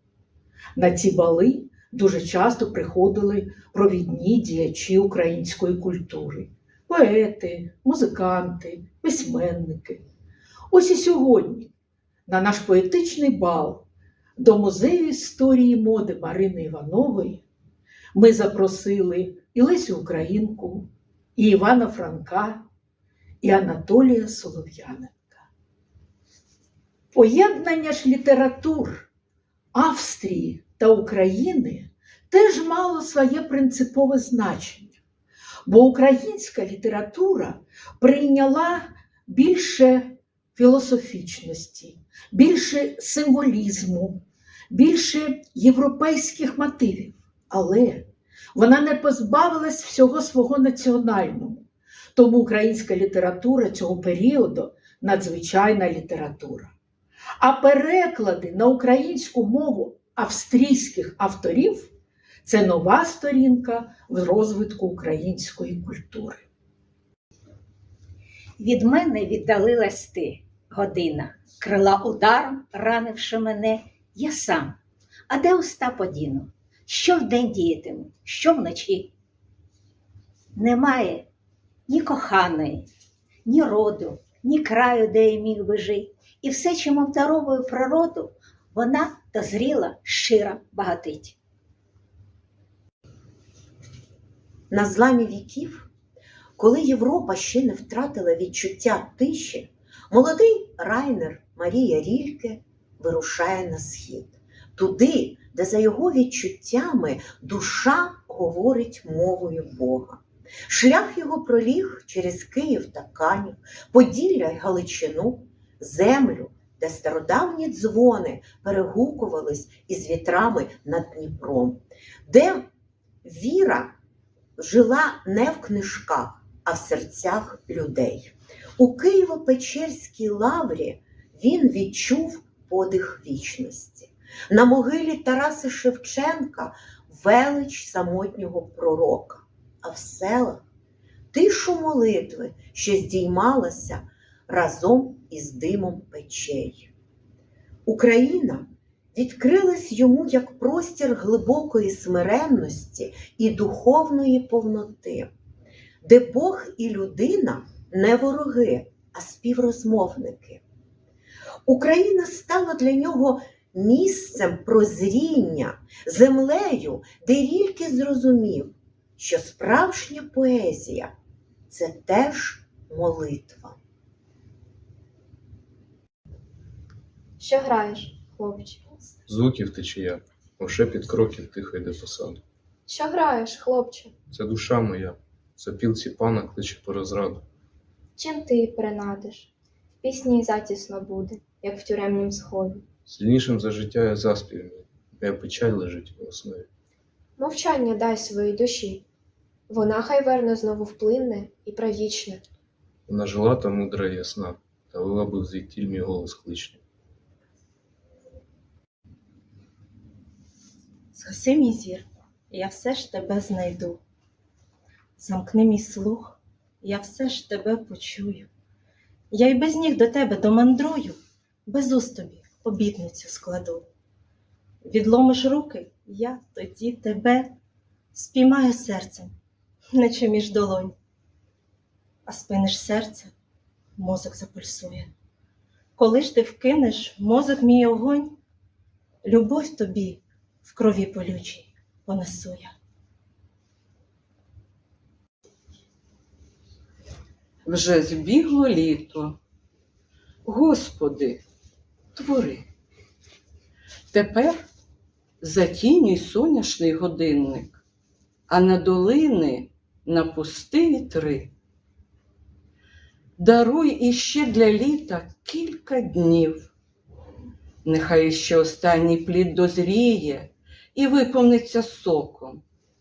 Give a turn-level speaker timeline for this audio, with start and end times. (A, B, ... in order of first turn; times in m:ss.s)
0:00.8-0:10.0 A
0:10.7-0:11.7 A
0:12.3-0:17.4 A
0:18.1-0:22.7 A
0:23.4-0:25.4 A
0:27.1-0:29.1 A
0:29.7-0:35.0 A
0:35.6-0:56.7 A
0:57.4-1:01.9 A
1:02.4-1:06.4 A
1:08.6-1:14.8 B
1:15.3-1:19.1 B
1:20.6-1:21.2 B
1:21.9-1:22.9 B
1:23.5-1:31.3 B
1:34.7-1:35.9 C
1:36.6-2:02.7 C
2:03.2-2:04.0 C
2:04.6-2:20.6 C
2:21.3-2:26.9 C
2:27.9-2:35.3 C
2:36.0-2:40.6 C
2:41.7-2:51.1 C
2:51.7-2:53.8 C
2:57.4-2:59.0 D
2:59.3-3:02.4 E
3:02.9-3:04.1 D
3:04.3-3:07.4 E
3:08.2-3:09.5 D
3:10.0-3:12.8 D
3:13.1-3:16.7 E
3:17.4-3:19.0 D
3:19.7-3:22.4 D
3:23.1-3:26.8 E
3:31.2-3:34.0 F
3:35.2-3:38.5 F
3:39.3-3:43.9 F
3:44.8-3:47.6 F
3:48.1-3:49.4 F
3:49.9-3:51.0 F
3:52.3-3:53.3 F
3:54.0-3:55.1 F
3:56.0-3:58.4 F
3:59.2-4:02.7 F
4:07.6-4:09.4 G
4:10.5-4:11.4 G
4:12.2-4:12.6 G
4:14.1-4:14.6 G
4:15.4-4:17.8 G
4:18.5-4:21.5 G
4:23.4-4:26.7 G
4:27.8-4:32.6 G